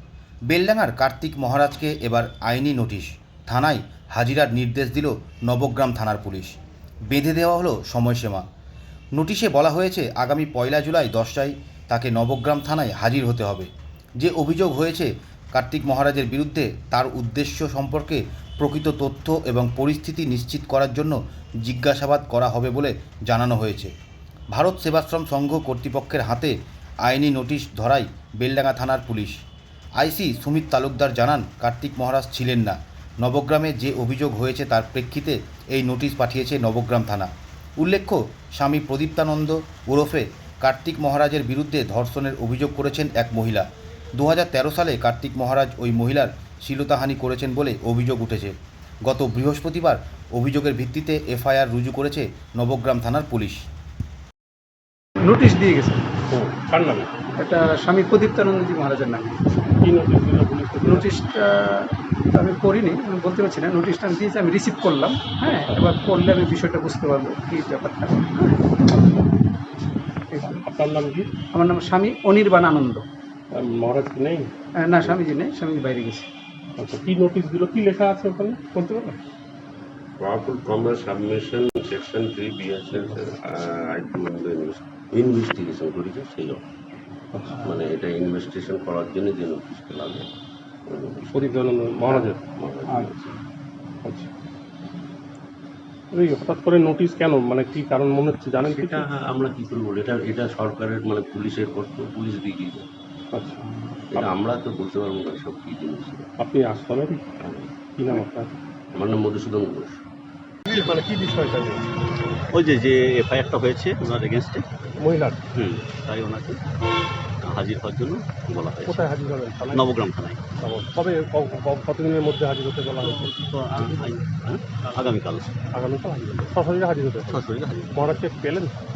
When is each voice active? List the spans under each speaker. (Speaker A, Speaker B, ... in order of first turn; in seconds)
Speaker A: 0.5-6.5, 7.1-8.4, 9.2-23.9, 24.5-26.5, 27.1-29.4, 30.0-48.5, 49.1-53.6
Speaker B: 55.2-56.1, 57.4-59.4, 60.8-68.9, 70.3-70.6, 71.5-73.1, 74.8-76.3, 78.8-79.2
Speaker C: 56.3-57.1, 59.8-61.1, 70.4-71.3, 73.5-74.5, 76.8-78.7, 91.3-92.4, 94.0-94.3, 96.1-99.0, 103.3-104.2, 106.4-107.3, 108.0-108.5, 110.7-111.8, 115.0-115.5, 118.8-119.9, 120.6-124.1, 125.7-128.8
Speaker D: 80.2-86.7, 87.5-90.3, 90.9-93.4, 98.6-102.9, 104.1-106.3, 107.4-107.7, 109.0-110.0
Speaker E: 112.5-114.7, 115.5-116.6, 117.4-119.0, 119.7-120.4, 123.0-125.6, 127.3-128.2